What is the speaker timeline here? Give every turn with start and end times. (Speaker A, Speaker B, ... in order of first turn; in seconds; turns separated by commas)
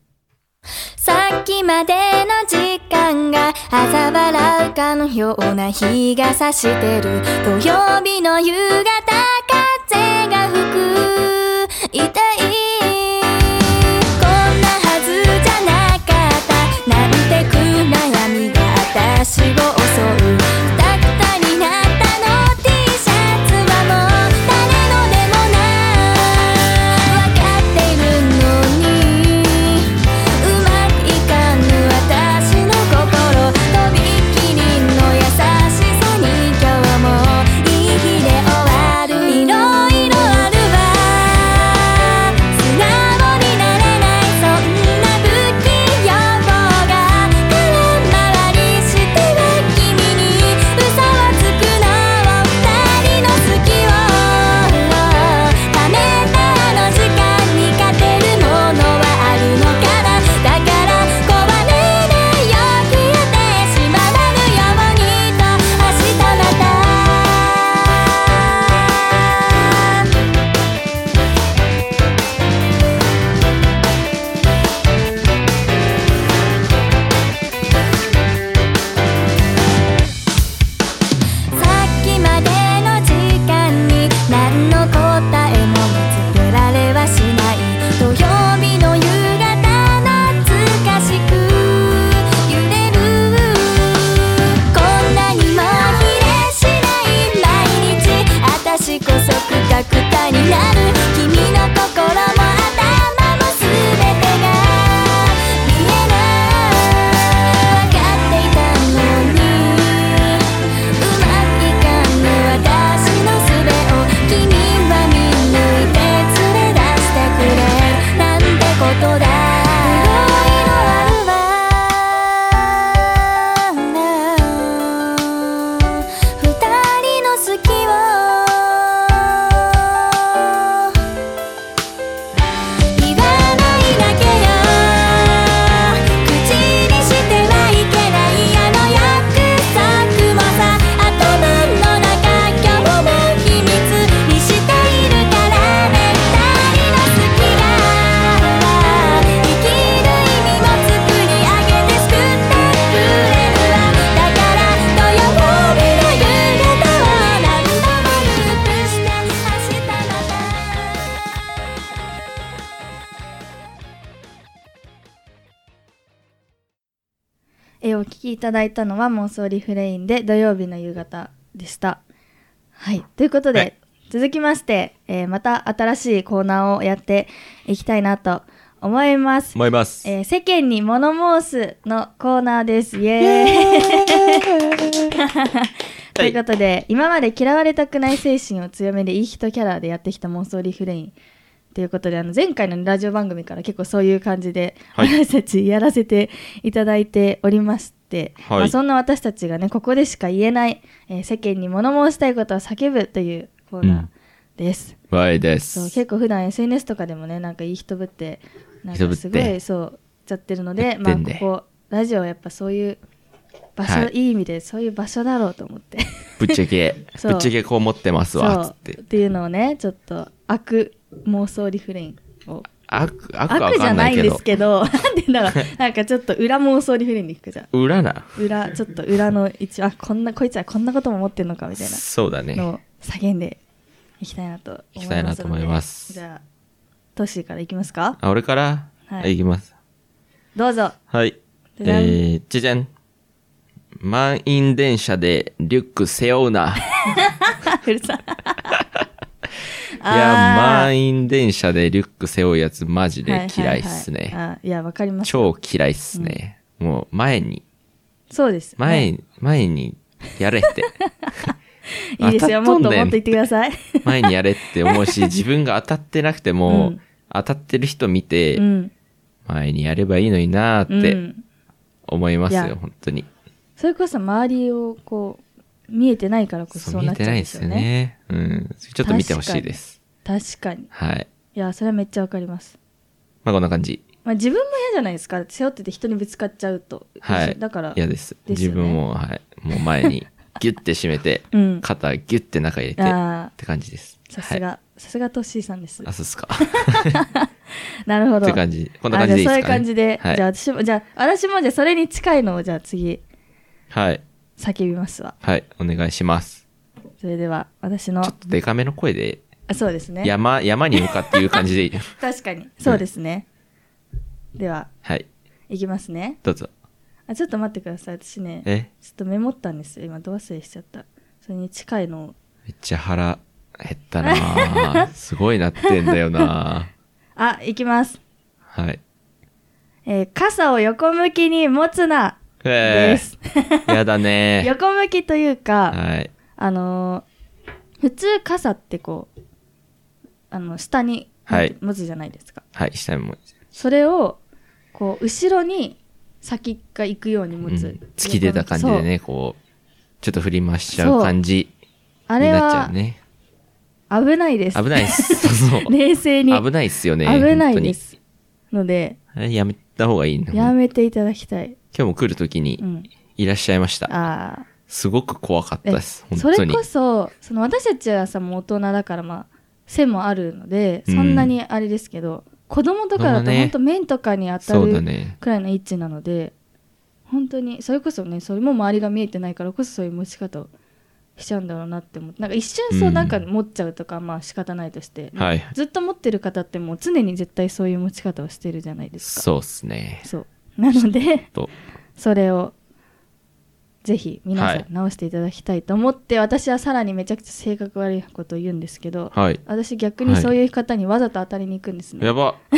Speaker A: 1.0-67.8, Speaker A: 81.5-110.4, Speaker A: 111.0-130.9, Speaker A: 132.9-160.9, Speaker B: 167.8-172.0, Speaker B: 172.8-184.5, Speaker C: 179.5-180.1, Speaker C: 183.2-185.2, Speaker B: 185.1-191.1, Speaker B: 191.7-205.0, Speaker C: 198.4-198.7, Speaker C: 203.8-204.1, Speaker C: 205.1-205.9, Speaker B: 205.7-213.0, Speaker C: 208.9-209.6, Speaker C: 210.8-211.4, Speaker B: 213.8-216.6, Speaker C: 213.8-214.1, Speaker C: 216.4-219.0, Speaker B: 217.1-217.5, Speaker B: 218.3-222.7, Speaker C: 222.9-224.4, Speaker B: 223.5-227.7, Speaker C: 227.7-228.4, Speaker B: 228.3-232.0, Speaker C: 231.8-232.7, Speaker B: 232.5-233.6, Speaker B: 234.2-236.4, Speaker C: 234.9-236.2, Speaker B: 237.2-238.2, Speaker C: 238.2-239.7, Speaker B: 240.5-240.9, Speaker C: 241.1-242.9, Speaker B: 241.8-242.2, Speaker C: 244.0-246.9, Speaker B: 247.0-248.8, Speaker B: 250.0-250.9, Speaker C: 250.1-254.4, Speaker B: 253.2-255.5, Speaker C: 255.2-257.6, Speaker B: 258.3-259.1, Speaker C: 258.8-260.9, Speaker B: 261.2-261.5, Speaker B: 262.2-264.3, Speaker C: 262.2-263.2, Speaker C: 264.0-268.6, Speaker B: 264.9-265.3, Speaker B: 266.7-267.0, Speaker B: 268.5-268.9, Speaker C: 269.4-271.2, Speaker B: 270.9-271.4, Speaker C: 272.1-273.3, Speaker B: 272.5-272.7, Speaker B: 273.8-277.9, Speaker C: 276.7-280.0, Speaker B: 279.0-280.9, Speaker C: 280.9-281.3, Speaker B: 281.5-282.8, Speaker C: 283.4-284.0, Speaker B: 284.2-289.0, Speaker C: 287.2-294.6, Speaker B: 291.5-291.8, Speaker B: 293.0-293.5, Speaker B: 294.3-296.1, Speaker C: 296.0-297.2, Speaker B: 296.7-297.5, Speaker B: 298.1-303.2, Speaker C: 298.4-300.4, Speaker C: 303.9-304.2, Speaker B: 304.6-305.4, Speaker C: 305.4-306.6, Speaker B: 307.2-308.3, Speaker C: 308.2-309.4, Speaker B: 309.7-310.3, Speaker C: 310.2-312.1, Speaker B: 311.0-311.4, Speaker B: 312.2-313.4, Speaker B: 314.6-314.9, Speaker B: 315.7-316.4, Speaker C: 316.4-316.7, Speaker B: 317.3-322.3, Speaker C: 322.7-326.9, Speaker B: 324.2-325.1, Speaker B: 327.4-328.2, Speaker C: 328.7-329.0, Speaker B: 330.1-334.0, Speaker C: 332.6-333.2, Speaker C: 333.9-334.7, Speaker B: 334.6-336.0, Speaker C: 335.9-336.3, Speaker B: 336.6-337.2, Speaker B: 338.0-339.3, Speaker B: 340.5-342.6, Speaker C: 341.5-341.7, Speaker C: 342.7-343.4, Speaker B: 343.7-344.4, Speaker B: 344.9-349.1, Speaker C: 347.6-349.6, Speaker C: 350.2-351.7, Speaker B: 350.9-351.3, Speaker B: 352.3-352.9, Speaker C: 352.4-353.2, Speaker B: 354.1-356.6, Speaker C: 354.7-355.9, Speaker C: 356.5-358.0, Speaker B: 357.2-358.2, Speaker B: 358.7-359.2, Speaker C: 359.3-360.7, Speaker B: 360.5-361.8, Speaker C: 361.9-362.8, Speaker B: 362.8-363.1, Speaker C: 363.4-364.1, Speaker B: 364.1-364.7, Speaker C: 364.9-366.8, Speaker B: 365.8-376.5, Speaker C: 371.1-371.5, Speaker C: 373.1-373.7, Speaker C: 374.6-375.4, Speaker B: 377.3-380.7, Speaker B: 381.4-389.5, Speaker C: 382.9-383.4, Speaker C: 385.4-385.7, Speaker C: 389.2-390.3, Speaker B: 390.2-391.5, Speaker C: 390.9-391.7, Speaker B: 392.2-392.7, Speaker B: 394.0-402.3, Speaker C: 394.5-394.8, Speaker C: 399.3-399.6, Speaker C: 400.2-400.5, Speaker C: 402.2-402.6